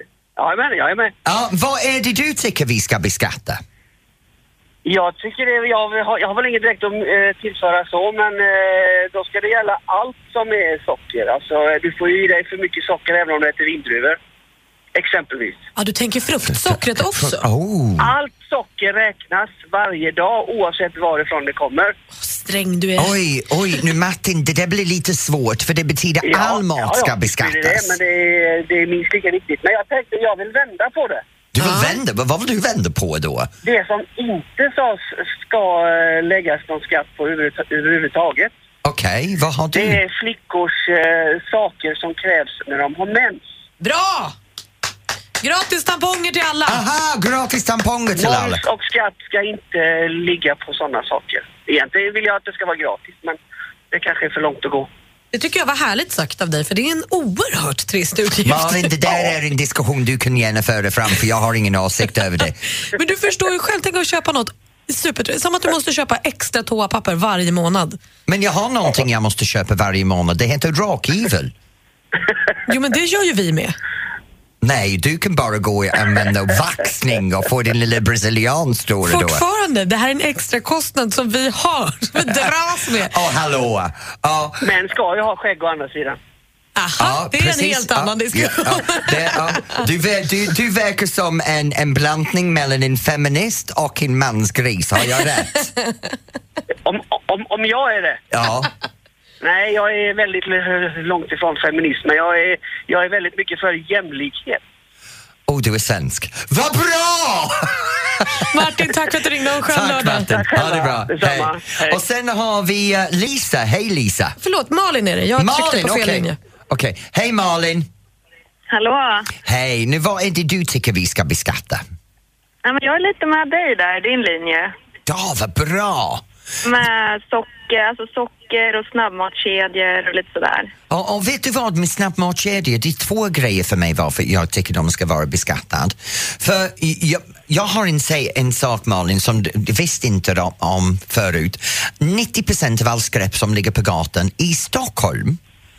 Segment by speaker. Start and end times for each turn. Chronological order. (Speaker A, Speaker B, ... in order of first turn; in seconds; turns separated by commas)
Speaker A: 0.4-1.1, Speaker B: 1.2-3.6, Speaker A: 4.8-14.2, Speaker A: 14.9-15.6, Speaker C: 15.8-17.4, Speaker B: 16.5-18.1, Speaker A: 18.0-21.9, Speaker C: 22.2-23.2, Speaker B: 23.0-28.0, Speaker A: 26.2-31.2, Speaker B: 31.5-33.5, Speaker C: 31.6-32.0, Speaker A: 33.6-38.5, Speaker B: 38.8-40.0, Speaker A: 39.7-43.5, Speaker C: 43.8-44.4, Speaker C: 45.4-46.8, Speaker B: 46.6-48.6, Speaker A: 48.1-53.4, Speaker A: 53.9-54.9, Speaker C: 55.3-58.9, Speaker B: 58.5-62.6, Speaker C: 62.9-68.0, Speaker B: 68.3-71.5, Speaker C: 72.7-73.8, Speaker B: 74.6-79.4, Speaker C: 79.0-83.1, Speaker B: 82.2-84.6, Speaker A: 84.6-86.2, Speaker C: 86.8-89.8, Speaker B: 87.0-95.7, Speaker A: 96.8-98.2, Speaker B: 98.3-98.7, Speaker A: 99.4-104.6, Speaker B: 105.5-108.5, Speaker C: 108.5-110.3, Speaker B: 109.6-114.4, Speaker A: 110.3-112.0, Speaker C: 114.4-116.4, Speaker B: 115.4-117.9, Speaker D: 118.7-119.3, Speaker B: 119.4-121.8, Speaker D: 122.6-124.7, Speaker B: 125.1-126.2, Speaker D: 126.6-130.7, Speaker B: 130.9-145.4